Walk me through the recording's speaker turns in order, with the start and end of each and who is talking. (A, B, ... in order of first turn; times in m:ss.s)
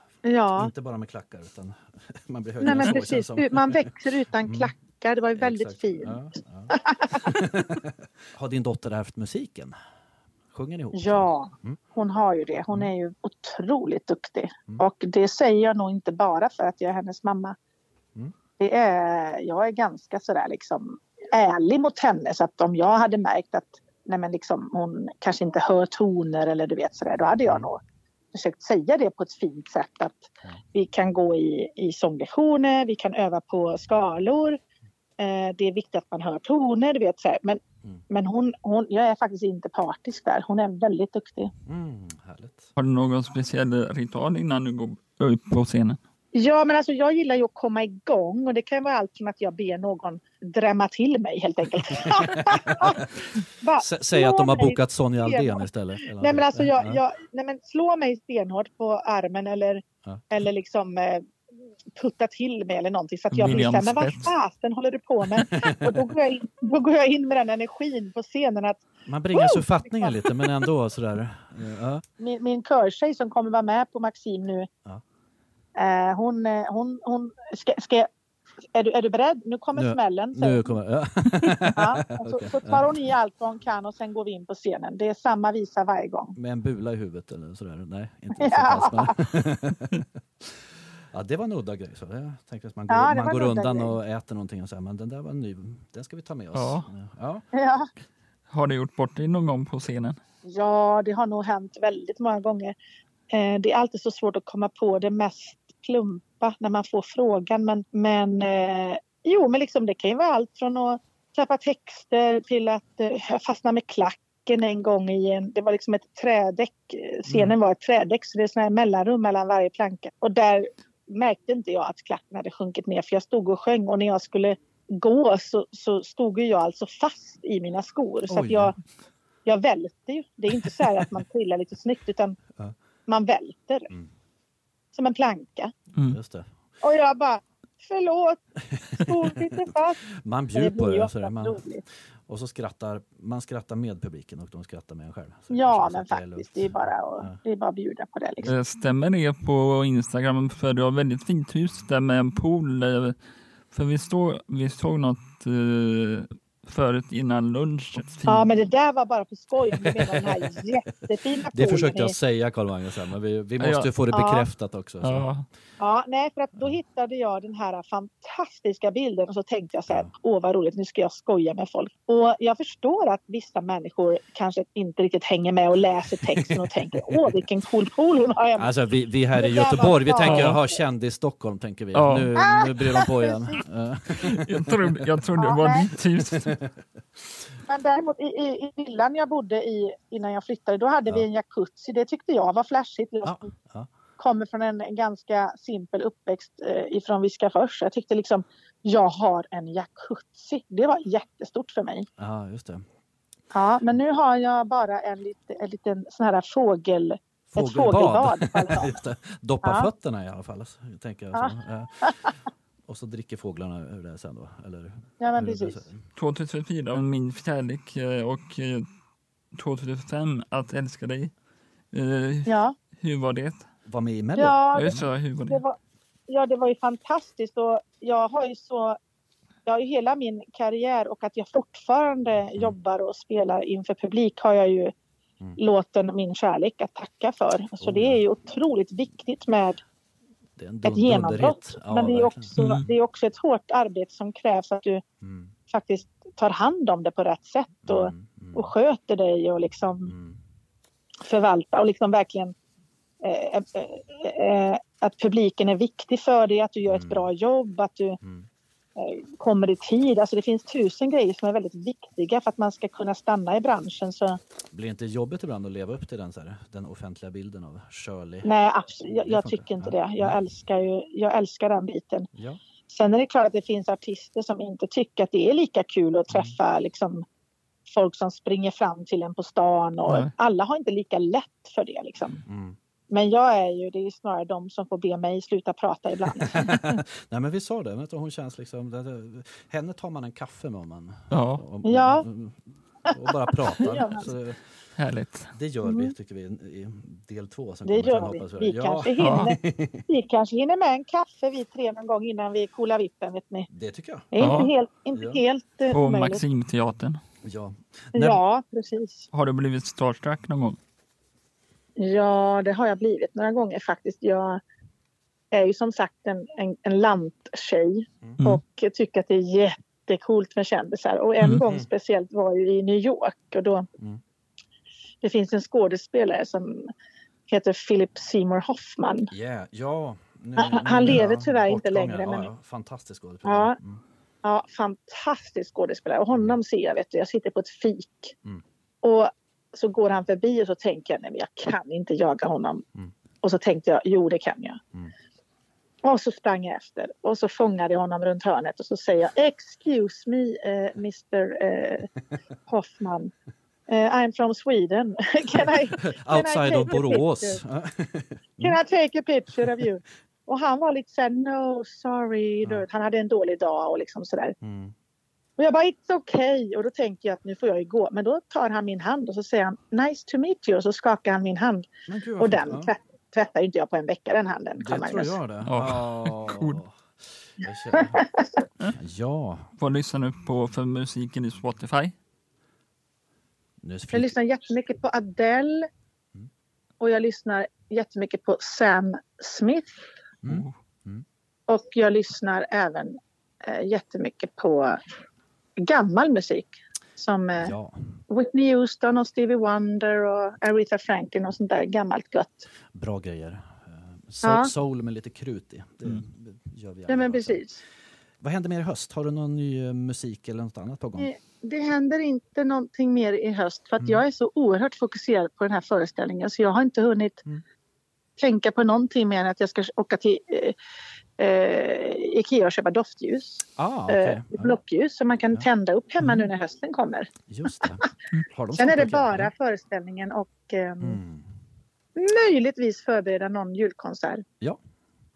0:00.2-0:00.7 A
0:00.6-0:04.7 B
0:02.6-0:06.2 A
0:05.4-0:09.7 B
0:06.7-0:07.2 A
0:10.5-0:11.8 B
0:10.9-0:17.6 A
0:18.6-0:27.8 A
0:28.3-0:34.6 A
0:35.2-0:41.5 A
0:41.6-0:42.7 B
0:42.8-0:46.0 C
0:46.3-1:01.3 A
0:52.0-0:53.1 B
0:53.8-0:57.0 B
1:01.9-1:10.6 A
1:03.3-1:04.3 C
1:03.4-1:03.8 B
1:05.4-1:06.0 B
1:09.0-1:12.0 B
1:12.2-1:14.7 A
1:15.8-1:18.1 A
1:18.7-1:20.7 A
1:19.7-1:22.9 B
1:21.4-1:26.3 A
1:26.3-1:37.4 B
1:28.3-1:29.2 A
1:32.9-1:34.0 A
1:36.5-1:36.9 C
1:37.5-1:37.9 A
1:38.5-1:40.2 C
1:40.4-1:42.7 A
1:43.3-2:08.7 A
2:08.3-2:08.7 B
2:09.4-2:12.4 A
2:10.5-2:10.9 B
2:13.1-2:13.9 A
2:14.9-2:15.7 A
2:16.0-2:16.5 B
2:16.8-2:18.4 A
2:18.7-2:21.6 B
2:19.0-2:20.0 A
2:20.5-2:21.8 A
2:22.3-2:27.4 B
2:25.5-2:28.5 A
2:28.4-2:33.2 C
2:33.7-2:38.5 C
2:38.3-2:42.2 A
2:39.8-2:40.5 B
2:41.5-2:45.3 B
2:43.6-2:43.9 C
2:44.1-2:44.4 A
2:45.0-2:45.4 C
2:45.8-2:58.7 A
2:56.4-2:57.2 B
2:58.6-3:05.0 B
2:59.3-3:00.6 A
3:00.2-3:00.6 C
3:01.9-3:02.3 C
3:02.4-3:03.6 A
3:04.2-3:06.5 C
3:05.4-3:05.9 A
3:06.2-3:07.4 B
3:07.7-3:13.5 A
3:13.2-3:13.9 B
3:14.2-3:22.1 A
3:22.2-3:22.8 B
3:23.5-3:29.0 A
3:27.5-3:32.3 B
3:29.6-3:29.9 A
3:31.3-3:32.3 A
3:32.8-3:36.0 B
3:35.2-3:35.9 A
3:36.2-3:38.9 C
3:39.5-3:41.3 C
3:41.9-3:43.7 C
3:42.5-3:42.8 A
3:43.8-3:45.0 B
3:44.4-3:45.8 A
3:44.7-3:45.6 C
3:46.3-3:49.0 A
3:49.6-3:54.9 A
3:55.6-3:59.8 A
3:57.8-3:58.2 B
4:00.6-4:02.5 B
4:00.8-4:05.0 A
4:02.6-4:02.9 C
4:05.2-4:05.5 B
4:05.7-4:10.1 A
4:07.8-4:08.7 B
4:10.0-4:10.4 B
4:11.2-4:12.5 A
4:13.2-4:18.2 A
4:16.9-4:17.3 B
4:18.2-4:18.5 B
4:19.0-4:24.4 A
4:24.7-4:28.5 B
4:28.4-4:32.3 A
4:29.1-4:30.4 B
4:32.3-4:32.6 B
4:32.9-4:37.2 A
4:36.3-4:36.6 B
4:37.9-4:42.4 A
4:42.4-4:42.8 B
4:43.1-4:46.8 A
4:46.4-4:54.6 B
4:51.3-4:51.6 C
4:51.8-4:52.2 A
4:53.1-4:54.2 A
4:55.0-4:55.5 C
4:55.5-5:00.0 B
4:55.8-4:56.1 A
4:57.8-5:03.7 A
4:59.2-4:59.5 C
5:03.7-5:04.3 B
5:04.3-5:06.4 A
5:04.4-5:04.7 C
5:05.1-5:05.4 B
5:05.9-5:07.2 C
5:07.4-5:08.4 B
5:08.1-5:09.3 A
5:09.3-5:10.8 C
5:12.0-5:14.6 A
5:15.5-5:23.9 A
5:21.6-5:21.9 B
5:25.2-5:26.9 A
5:27.5-5:29.3 A
5:29.3-5:34.0 B
5:30.6-5:32.5 A
5:33.4-5:33.8 A
5:34.4-5:38.3 A
5:39.0-5:42.8 A
5:43.4-5:44.8 A
5:46.0-5:52.1 A
5:52.7-5:53.3 A
5:53.9-5:57.6 A
5:55.9-5:58.8 B
5:58.6-6:04.6 A
6:04.6-6:04.9 B
6:05.6-6:15.4 A
6:12.1-6:12.9 B
6:14.8-6:18.2 B
6:15.6-6:16.8 C
6:17.9-6:18.6 A
6:18.9-6:19.7 B
6:19.8-6:22.1 C
6:23.8-6:24.3 B
6:24.1-6:25.9 A
6:27.0-6:29.9 A
6:30.4-6:31.2 B
6:30.4-6:30.7 C
6:31.7-6:35.0 A
6:35.8-6:37.7 A
6:37.6-6:38.2 B
6:38.3-6:42.7 A
6:42.9-6:47.6 B
6:44.4-6:44.7 A
6:47.1-6:47.8 A
6:48.4-6:51.3 B
6:51.2-6:57.4 A
6:58.4-7:00.8 A
7:01.4-7:08.0 A
7:03.8-7:04.8 B
7:07.5-7:09.5 B
7:08.7-7:11.2 A
7:11.0-7:11.5 B
7:12.2-7:14.4 A